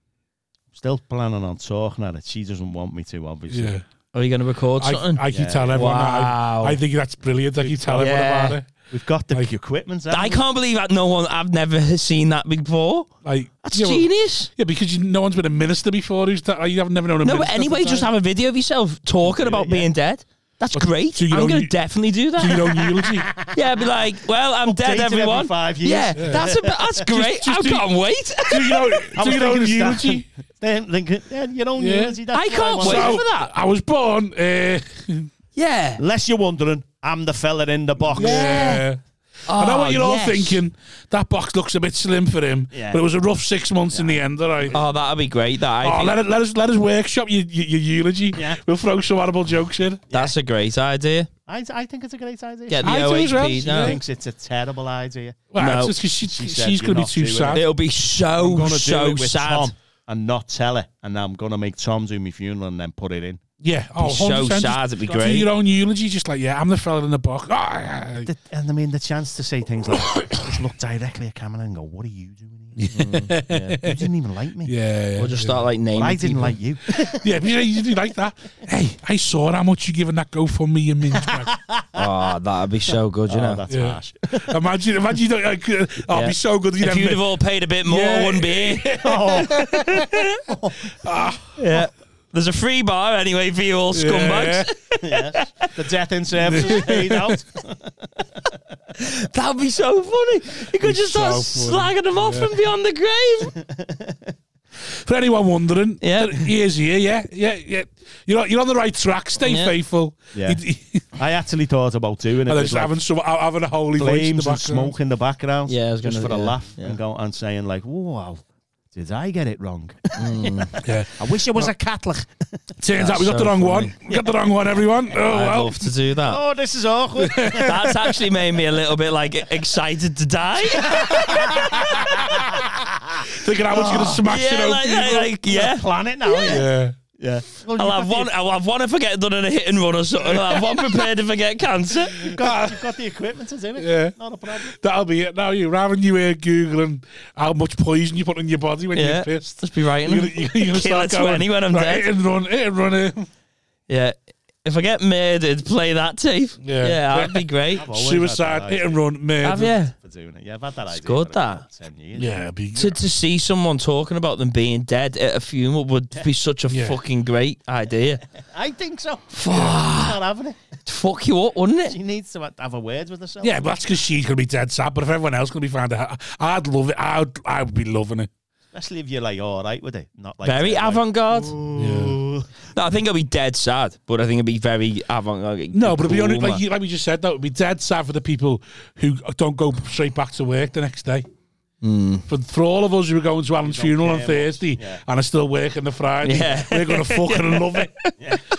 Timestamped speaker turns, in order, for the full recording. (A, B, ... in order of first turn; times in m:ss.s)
0:00.7-0:03.7 A
0:03.5-0:03.9 B
0:04.1-0:06.8 C
0:04.8-0:08.7 B
0:05.3-0:05.8 A
0:07.6-0:08.1 A
0:07.9-0:08.6 C
0:08.9-0:10.4 A
0:10.1-0:14.5 C
0:13.2-0:18.1 B
0:17.2-0:22.9 C
0:19.2-0:19.9 A
0:20.7-0:21.8 B
0:22.3-0:23.3 B
0:23.0-0:23.8 A
0:23.5-0:29.0 C
0:24.6-0:27.1 A
0:26.1-0:26.4 B
0:27.1-0:30.3 B
0:29.1-0:33.2 A
0:31.8-0:32.2 B
0:32.3-0:33.5 C
0:32.8-0:35.3 B
0:35.6-0:36.0 C
0:36.0-0:38.8 A
0:38.1-0:44.8 B
0:38.2-0:38.8 C
0:39.5-0:40.6 C
0:42.7-0:43.0 A
0:43.9-0:44.8 A
0:44.7-0:46.2 C
0:45.8-0:50.0 B
0:48.3-0:48.6 A
0:50.1-0:50.4 A
0:50.1-0:51.3 C
0:51.5-0:55.4 A
0:52.7-0:54.0 C
0:52.8-0:54.0 B
0:55.5-0:57.6 B
0:55.6-0:56.0 C
0:56.1-0:57.7 A
0:57.5-0:59.7 C
0:58.3-1:03.4 A
1:03.6-1:08.3 B
1:04.0-1:05.5 C
1:05.1-1:05.4 A
1:08.2-1:12.8 A
1:12.8-1:14.0 B
1:12.9-1:13.8 C
1:13.8-1:14.7 A
1:14.6-1:15.6 B
1:15.2-1:16.6 C
1:15.9-1:17.3 A
1:17.0-1:21.5 B
1:21.2-1:22.1 A
1:21.9-1:23.6 C
1:23.3-1:24.6 A
1:23.7-1:27.2 B
1:26.1-1:30.4 C
1:27.8-1:30.1 B
1:29.0-1:29.8 A
1:30.5-1:30.9 A
1:31.0-1:31.6 B
1:31.6-1:35.7 C
1:33.9-1:34.7 B
1:35.0-1:38.6 A
1:36.4-1:37.4 B
1:39.0-1:43.6 C
1:40.8-1:42.5 B
1:43.6-1:44.3 A
1:44.8-1:51.1 B
1:46.0-1:46.5 C
1:49.4-1:49.7 C
1:50.3-1:50.6 A
1:51.1-1:53.0 A
1:52.4-1:54.9 B
1:54.0-2:02.7 A
1:55.7-1:57.0 C
2:00.2-2:00.8 C
2:00.8-2:01.7 B
2:02.8-2:05.9 B
2:03.0-2:04.0 C
2:05.1-2:06.4 C
2:06.2-2:08.1 A
2:07.2-2:07.9 B
2:07.6-2:12.1 C
2:10.7-2:14.2 A
2:11.4-2:12.6 B
2:13.2-2:15.3 B
2:13.7-2:16.6 C
2:15.1-2:18.3 A
2:16.5-2:17.0 B
2:17.7-2:22.3 C
2:20.4-2:21.0 B
2:22.2-2:24.8 A
2:22.3-2:22.8 B
2:23.8-2:33.3 B
2:28.9-2:32.1 C
2:33.9-2:37.9 C
2:36.6-2:39.8 B
2:37.7-2:39.0 A
2:39.4-2:39.9 C
2:39.9-2:42.4 A
2:40.9-2:41.6 C
2:42.1-2:43.0 B
2:42.8-2:48.2 C
2:46.7-2:47.0 B
2:48.3-2:50.8 A
2:49.3-2:50.2 C
2:49.5-2:49.8 B
2:50.8-2:52.0 C
2:51.8-2:53.8 A
2:53.4-2:58.3 B
2:58.7-3:02.6 A
3:00.4-3:01.6 C
3:01.8-3:02.2 B
3:02.7-3:06.6 C
3:05.7-3:11.3 B
3:11.8-3:12.2 C
3:12.3-3:17.9 B
3:13.6-3:15.0 A
3:16.2-3:18.1 C
3:18.2-3:18.4 A